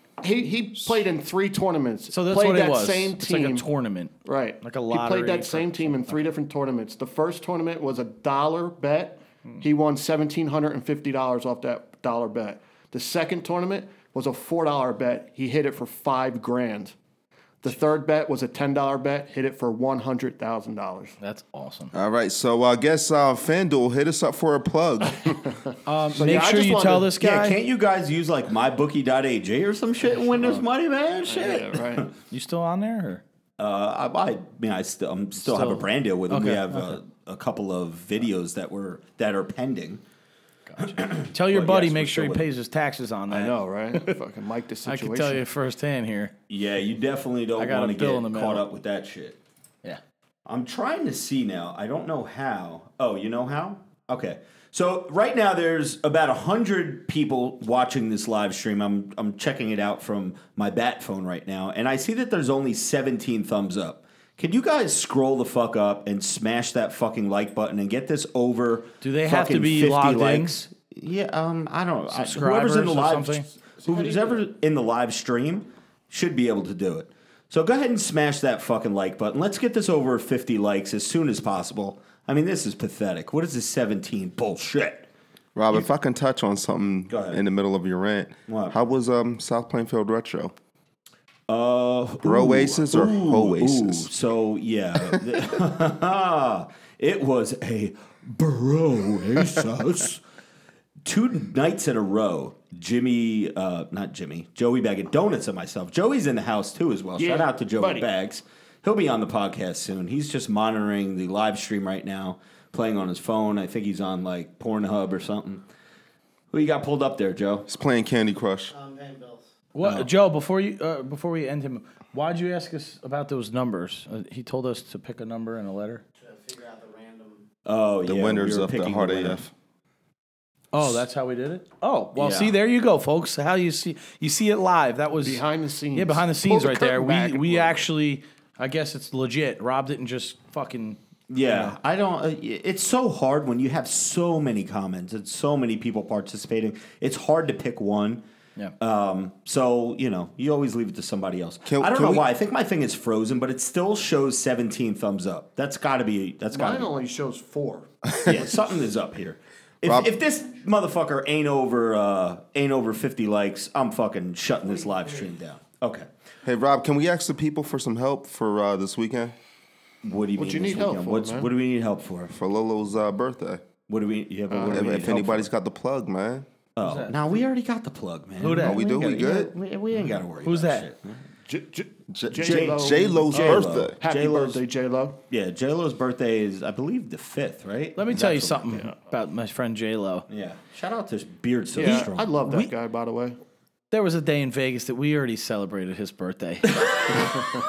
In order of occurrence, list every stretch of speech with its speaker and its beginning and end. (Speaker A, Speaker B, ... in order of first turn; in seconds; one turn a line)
Speaker A: 0.2-3.7
Speaker B: 2.1-6.2
Speaker A: 4.2-16.9
Speaker A: 17.6-21.2
Speaker B: 21.2-21.9
Speaker C: 21.9-25.4
Speaker B: 25.9-27.6
Speaker A: 26.1-27.1
Speaker D: 27.2-32.1
Speaker A: 31.3-32.1
Speaker B: 32.3-33.2
Speaker D: 33.6-40.0
Speaker B: 35.5-37.0
Speaker B: 40.7-44.1
Speaker D: 40.9-42.5
Speaker A: 43.3-45.5
Speaker B: 44.9-46.3
Speaker D: 46.5-49.4
Speaker B: 47.6-48.6
Speaker D: 50.5-85.1
Speaker B: 69.0-70.5
Speaker B: 72.1-73.5
Speaker A: 73.8-74.4
Speaker C: 85.5-90.5
Speaker D: 87.1-87.4
Speaker D: 88.5-88.8
Speaker D: 91.5-100.2
Speaker C: 92.2-94.1
Speaker D: 101.0-115.6
Speaker A: 107.2-108.1
Speaker D: 116.5-117.7
Speaker C: 117.7-118.8
Speaker E: 118.7-119.4
Speaker B: 119.7-126.0
Speaker D: 119.8-120.1
Speaker E: 126.2-127.4
Speaker D: 127.7-129.4
Speaker C: 128.0-129.5
Speaker B: 130.7-141.8
Speaker D: 132.2-132.6
Speaker A: 135.2-137.9
Speaker D: 141.3-148.2
Speaker D: 148.8-156.9
Speaker C: 151.7-152.3
Speaker A: 156.5-157.9
Speaker D: 158.2-166.1
Speaker C: 159.8-160.1
Speaker C: 166.4-169.3
Speaker D: 170.0-172.3
Speaker A: 170.4-171.5
Speaker C: 172.3-173.6
Speaker D: 173.9-175.5
Speaker A: 174.5-175.3
Speaker C: 174.7-176.5
Speaker D: 176.8-181.2
Speaker B: 176.8-177.2
Speaker B: 178.4-179.4
Speaker C: 178.6-179.5
Speaker B: 180.4-180.9
Speaker A: 181.5-185.2
Speaker C: 182.1-184.0
Speaker D: 182.4-184.6
Speaker D: 185.3-188.9
Speaker B: 188.0-190.3
Speaker D: 190.3-192.3
Speaker A: 191.8-193.4
Speaker B: 191.8-192.7
Speaker B: 193.9-197.2